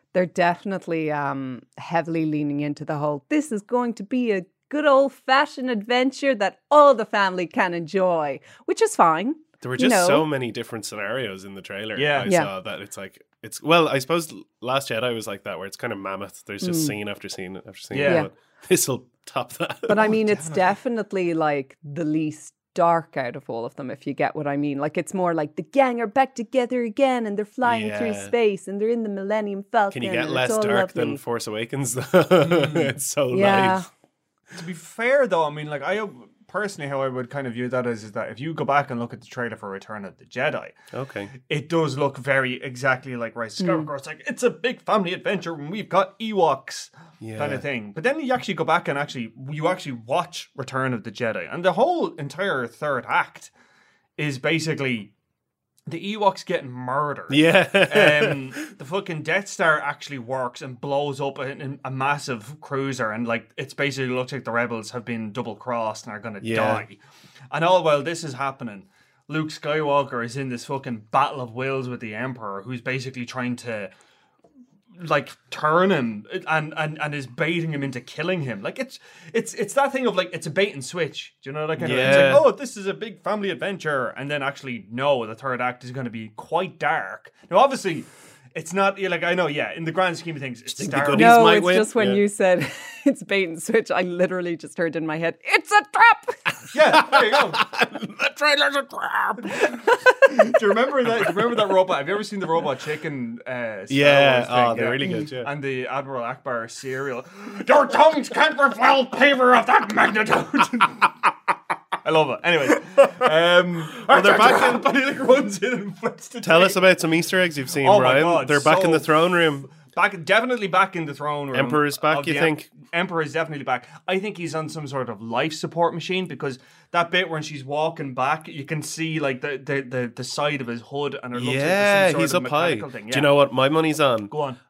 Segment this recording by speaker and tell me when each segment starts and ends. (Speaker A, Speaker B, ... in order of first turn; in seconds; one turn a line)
Speaker A: 0.1-10.3
Speaker B: 9.6-20.1
Speaker C: 11.9-12.3
Speaker A: 12.2-12.5
Speaker A: 16.6-16.9
Speaker C: 17.9-18.3
Speaker A: 18.0-18.3
Speaker A: 19.9-31.2
Speaker C: 19.9-20.8
Speaker B: 27.6-28.3
Speaker B: 29.9-33.8
Speaker C: 32.4-32.9
Speaker A: 33.3-33.9
Speaker C: 34.5-40.8
Speaker B: 40.9-41.3
Speaker C: 41.4-53.5
Speaker A: 43.6-43.9
Speaker B: 47.2-47.6
Speaker C: 54.2-55.1
Speaker C: 55.9-67.0
Speaker B: 57.3-58.5
Speaker B: 66.4-66.8
Speaker C: 67.5-73.9
Speaker C: 75.0-91.5
Speaker B: 81.8-82.5
Speaker B: 90.7-92.2
Speaker A: 91.1-96.4
Speaker C: 96.7-97.6
Speaker B: 96.7-99.6
Speaker C: 99.4-111.2
Speaker B: 101.1-101.5
Speaker B: 103.9-105.5
Speaker C: 112.0-116.8
Speaker B: 113.9-114.8
Speaker B: 116.4-119.7
Speaker C: 117.8-119.2
Speaker C: 119.7-133.3
Speaker B: 121.5-122.7
Speaker B: 131.3-134.3
Speaker C: 134.3-134.6